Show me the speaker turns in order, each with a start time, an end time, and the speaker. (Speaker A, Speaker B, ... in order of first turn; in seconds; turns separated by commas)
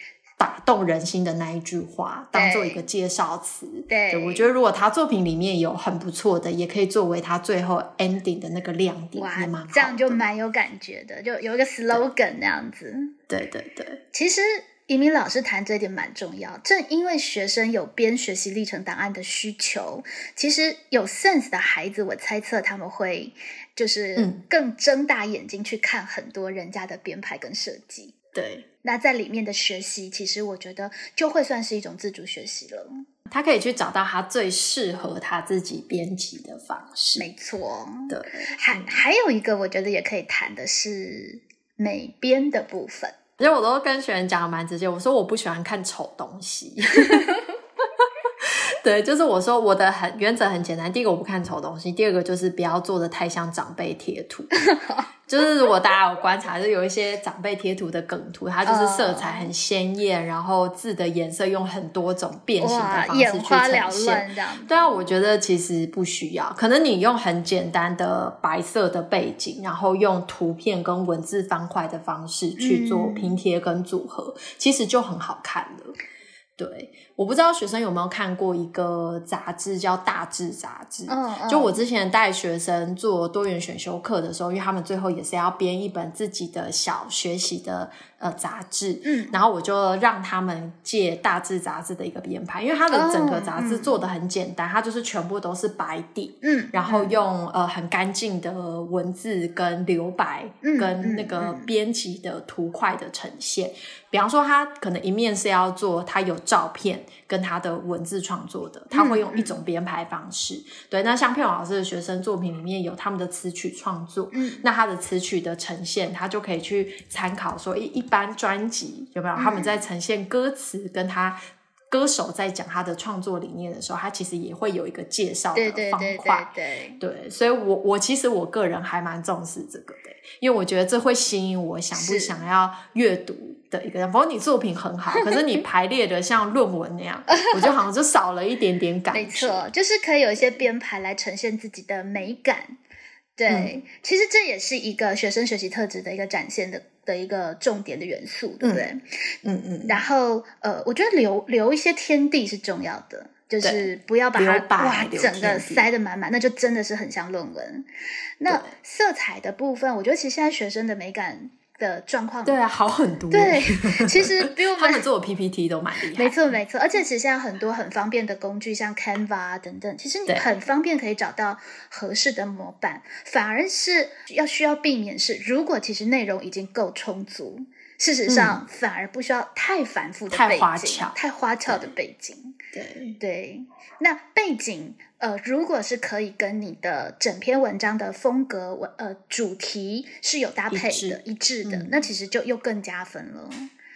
Speaker A: 0.4-10.2, Speaker B: 2.3-2.8, Speaker B: 3.9-4.5, Speaker B: 9.2-13.1, Speaker A: 13.3-14.0, Speaker B: 14.1-28.1, Speaker A: 28.3-28.6, Speaker B: 28.8-33.0, Speaker A: 33.3-37.2, Speaker B: 37.1-43.2, Speaker A: 38.1-39.0, Speaker A: 43.4-47.4, Speaker A: 48.4-54.6, Speaker B: 54.6-55.1, Speaker A: 55.3-76.0, Speaker B: 58.6-59.5, Speaker B: 62.6-65.0, Speaker B: 72.6-73.4, Speaker A: 76.6-121.4, Speaker B: 81.1-81.8, Speaker B: 89.0-89.3, Speaker B: 92.9-94.0, Speaker B: 96.4-97.2, Speaker B: 100.6-101.7, Speaker B: 108.9-109.5, Speaker B: 114.3-114.7, Speaker B: 119.3-119.8, Speaker A: 121.9-139.7, Speaker B: 125.5-127.0, Speaker B: 131.9-132.3, Speaker B: 135.1-135.4, Speaker B: 137.4-137.7, Speaker B: 139.1-142.8, Speaker B: 143.4-149.0, Speaker A: 148.6-148.9, Speaker A: 149.4-150.0, Speaker B: 149.8-157.9, Speaker A: 153.6-155.9, Speaker B: 158.4-162.6, Speaker A: 162.4-166.4, Speaker B: 163.3-165.0, Speaker B: 166.1-182.6, Speaker A: 178.3-178.6, Speaker A: 180.3-181.9, Speaker A: 182.7-183.2, Speaker B: 183.2-193.7, Speaker A: 190.7-191.9